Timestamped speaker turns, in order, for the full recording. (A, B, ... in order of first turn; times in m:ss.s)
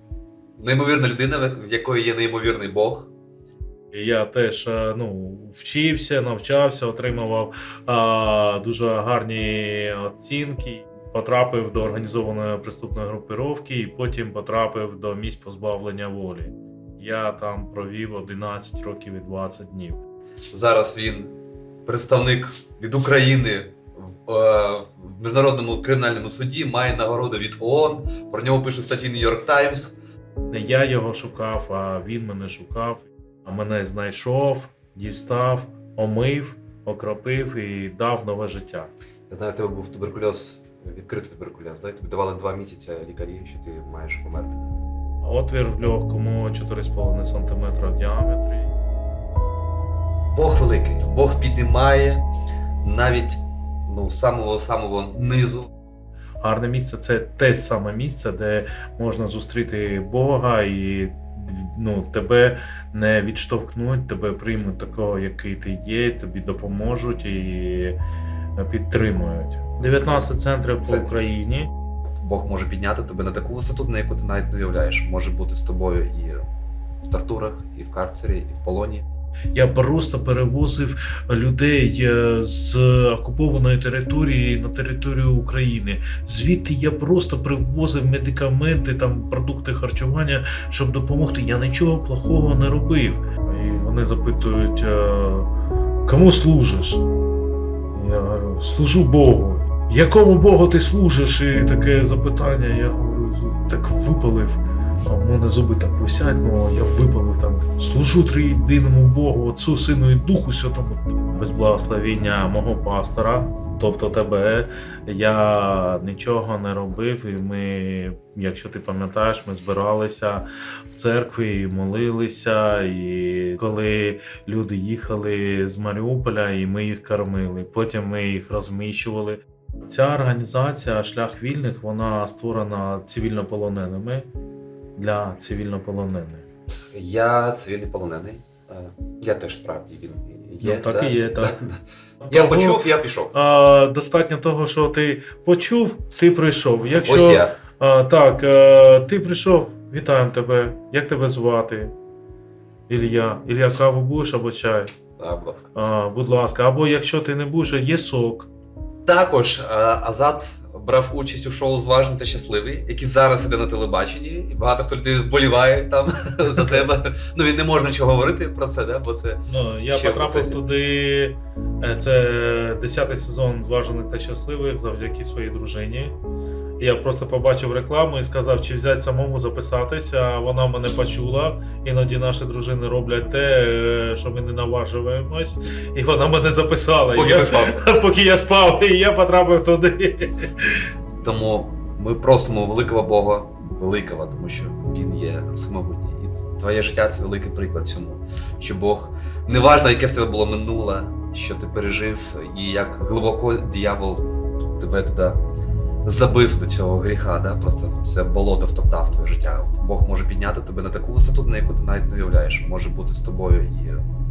0:00.6-0:03.1 A
0:03.9-0:20.0 B
0:20.5-0:21.3 A
0:21.9-0:30.0 A
0:30.5-0:38.9 B
0:39.3-0:44.6 A
0:45.2-0:48.7 B
0:50.3-0:52.2 A
0:52.8-0:55.7 A
0:56.4-1:08.0 B
1:08.6-1:11.7 B
1:09.8-1:10.3 A
1:10.8-1:11.1 A
1:12.2-1:16.4 A
1:17.0-1:19.1 A
1:19.5-1:35.5 B
1:36.1-1:37.0 B
1:37.9-2:14.3 B
2:15.0-2:16.4 B
2:16.9-2:23.3 A
2:20.6-2:21.6 B
2:22.2-2:31.9 B
2:27.0-2:27.6 A
2:32.9-2:34.9 B
2:35.2-2:35.7 A
2:35.8-2:38.5 B
2:39.1-2:49.4 A
2:46.6-2:46.8 B
2:49.5-2:56.2 B
2:49.9-2:50.6 A
2:56.8-3:10.8 B
3:07.1-3:07.8 A
3:11.2-3:25.4 A
3:26.0-3:34.0 A